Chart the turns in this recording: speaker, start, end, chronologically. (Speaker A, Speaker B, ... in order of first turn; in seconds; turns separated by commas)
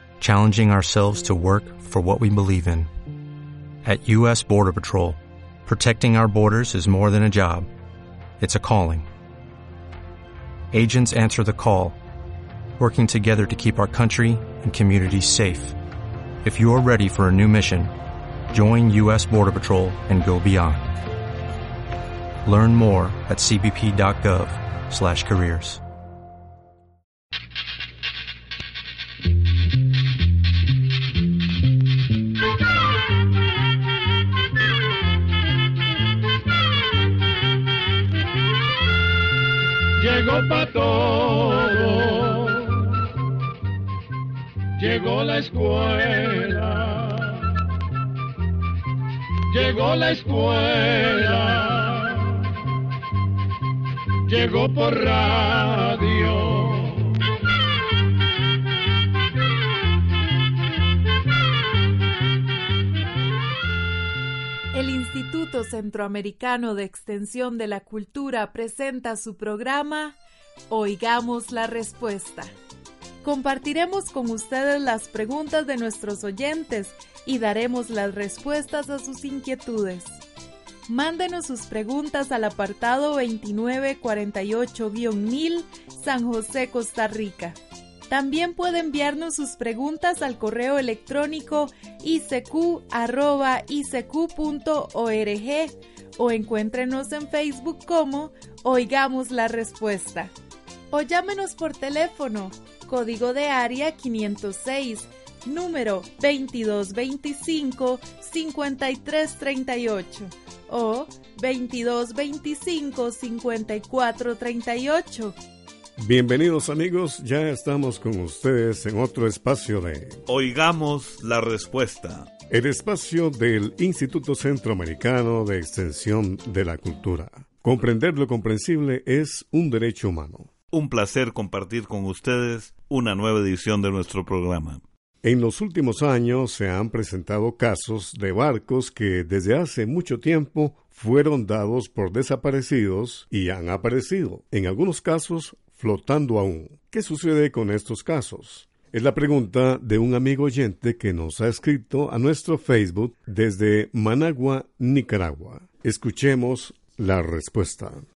Speaker A: 0.2-2.9, Speaker A: 3.8-7.7, Speaker A: 8.4-9.1, Speaker A: 10.7-12.0, Speaker A: 12.8-15.8, Speaker A: 16.4-17.9, Speaker A: 18.5-21.0, Speaker A: 22.4-25.8, Speaker B: 40.0-42.8, Speaker B: 44.8-47.4, Speaker B: 49.5-52.3, Speaker B: 54.3-57.1, Speaker C: 64.7-70.2, Speaker C: 70.7-72.5, Speaker C: 73.2-80.2, Speaker C: 80.9-87.6, Speaker C: 88.1-100.3, Speaker C: 100.9-115.3, Speaker D: 116.0-120.2, Speaker E: 120.3-122.3, Speaker D: 122.5-130.5, Speaker E: 130.7-134.8, Speaker D: 135.2-158.0